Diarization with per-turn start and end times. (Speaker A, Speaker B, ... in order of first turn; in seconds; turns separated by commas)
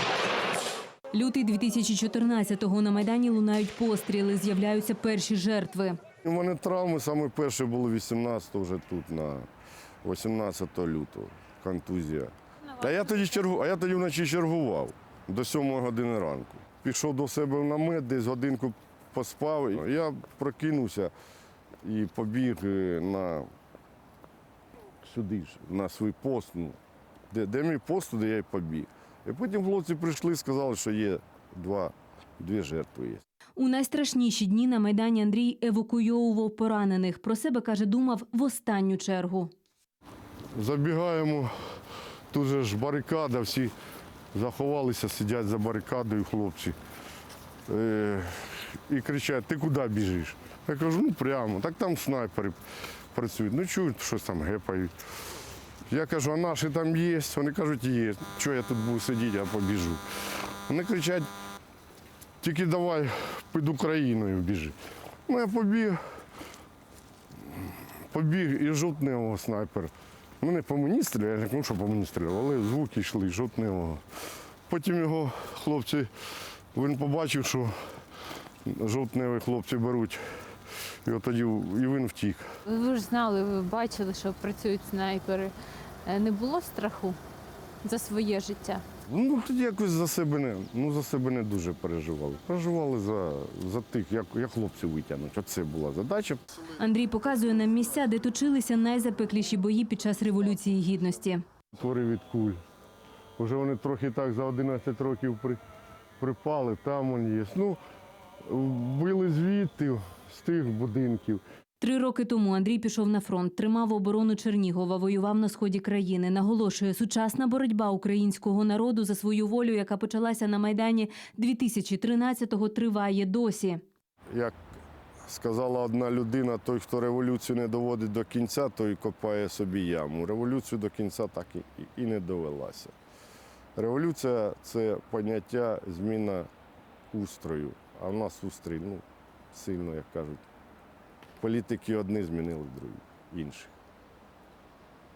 Speaker A: 1.1-6.0, Speaker B: 6.2-9.5, Speaker B: 10.0-21.1, Speaker B: 21.8-23.5, Speaker B: 25.0-26.8, Speaker B: 27.3-33.2, Speaker A: 33.6-39.5, Speaker B: 40.5-41.5, Speaker B: 42.3-43.7, Speaker B: 44.3-46.8, Speaker B: 47.7-52.6, Speaker B: 53.1-54.9, Speaker B: 55.9-60.0, Speaker B: 60.7-61.3, Speaker B: 62.4-64.7, Speaker B: 65.3-66.0, Speaker B: 68.1-74.0, Speaker B: 74.7-76.1, Speaker B: 76.7-77.7, Speaker B: 78.7-80.2, Speaker B: 81.0-82.4, Speaker C: 82.7-85.5, Speaker C: 86.0-87.1, Speaker A: 87.9-88.5, Speaker C: 88.4-88.8, Speaker B: 89.1-96.4, Speaker A: 96.8-101.4, Speaker B: 101.8-102.6, Speaker B: 103.4-105.6, Speaker B: 106.2-107.8, Speaker B: 108.4-111.4, Speaker A: 111.8-123.8, Speaker B: 125.2-132.9, Speaker B: 133.8-136.5, Speaker B: 137.1-140.4, Speaker B: 141.4-143.7